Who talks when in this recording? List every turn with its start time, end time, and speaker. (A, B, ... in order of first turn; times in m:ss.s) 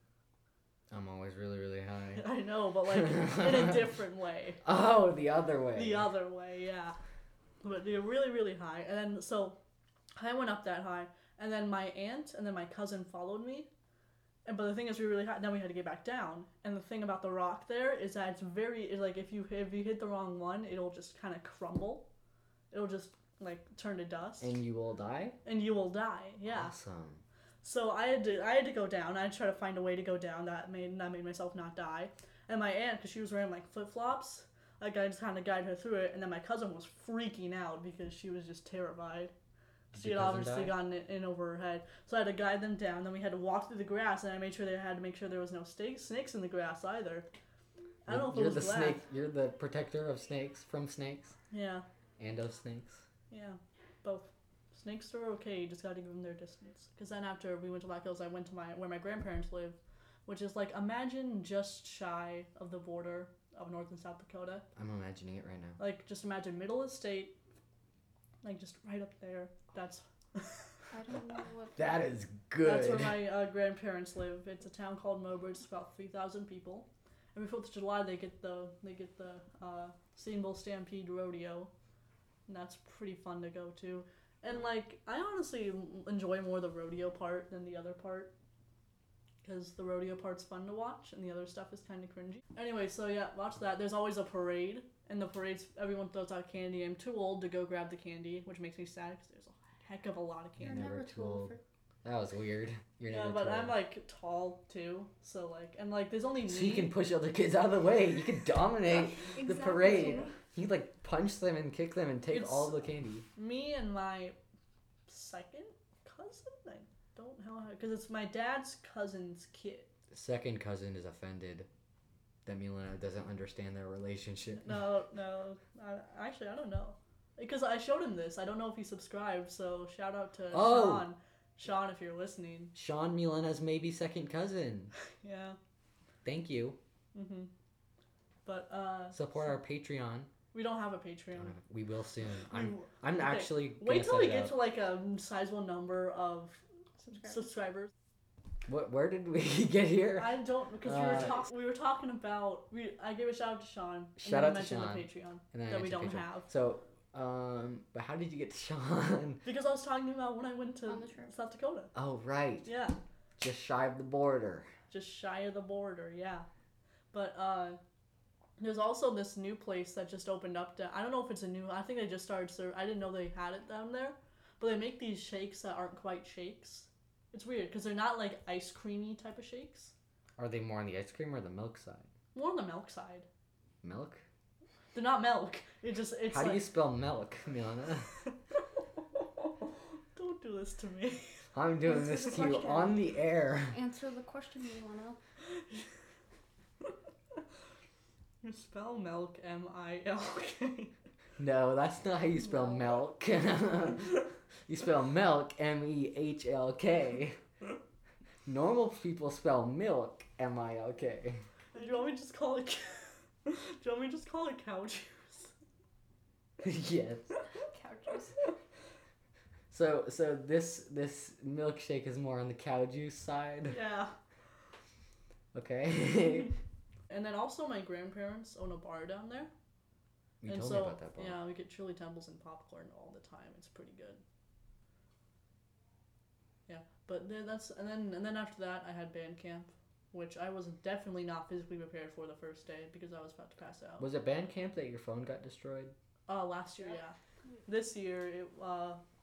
0:00.9-0:02.3 A
0:02.2-0:04.6 B
0:03.2-0:03.7 A
0:04.6-0:06.1 A
0:05.7-0:07.0 B
0:07.6-0:09.6 B
0:10.2-0:13.7 B
0:14.4-0:22.1 B
0:22.7-0:24.6 B
0:24.4-0:25.4 A
0:25.4-0:26.7 B
0:26.5-0:27.2 A
0:27.6-0:39.3 B
0:39.9-0:40.8 A
0:40.0-0:47.3 B
0:48.0-0:49.0 B
0:48.1-0:51.4 A
0:51.5-0:51.9 B
0:52.2-0:53.0 A
0:53.3-1:04.6 B
1:04.8-1:05.8 A
1:05.8-1:07.4 B
1:08.4-1:10.7 B
1:10.9-1:11.9 C
1:11.8-1:13.2 A
1:12.6-1:21.7 B
1:22.5-1:28.3 B
1:29.4-1:40.8 B
1:40.6-1:41.5 A
1:40.6-1:41.6 C
1:42.0-1:43.8 A
1:43.1-1:46.9 B
1:46.4-1:53.3 A
1:49.3-1:50.3 C
1:49.9-1:50.3 B
1:52.3-1:54.4 B
1:55.1-1:59.9 B
2:00.1-2:01.7 A
2:02.5-2:04.7 A
2:04.6-2:12.7 B
2:10.5-2:11.1 A
2:12.8-2:14.9 A
2:15.2-2:15.6 B
2:16.2-2:16.8 A
2:17.1-2:17.5 B
2:18.5-2:19.6 B
2:19.1-2:20.3 A
2:20.5-2:21.6 B
2:21.4-2:24.5 A
2:22.4-2:26.6 B
2:27.0-2:27.4 C
2:27.2-2:27.9 B
2:28.7-2:31.4 A
2:30.2-2:36.5 B
2:34.2-2:39.4 A
2:39.4-2:41.9 B
2:40.9-2:41.4 C
2:42.0-2:42.7 A
2:42.6-2:43.0 B
2:43.4-2:44.7 A
2:44.9-2:46.5 B
2:47.1-2:47.8 B
2:48.6-2:59.9 B
3:00.4-3:02.1 A
3:02.3-3:03.3 B
3:03.8-3:04.2 A
3:04.9-3:06.7 B
3:06.3-3:08.1 A
3:09.2-3:09.5 B
3:10.1-3:11.4 B
3:11.5-3:13.8 A
3:11.8-3:13.1 C
3:13.7-3:15.2 C
3:15.6-3:15.9 B
3:18.4-3:20.9 B
3:21.4-3:27.4 A
3:28.5-3:31.4 A
3:31.7-3:35.5 B
3:36.6-3:37.3 A
3:37.6-3:38.5 C
3:39.7-3:43.8 A
3:43.7-3:44.2 B
3:45.5-3:46.5 A
3:47.1-3:49.5 B
3:50.4-3:51.4 A
3:50.5-3:54.2 B
3:56.7-4:04.1 B
4:04.0-4:05.9 A
4:06.3-4:09.0 B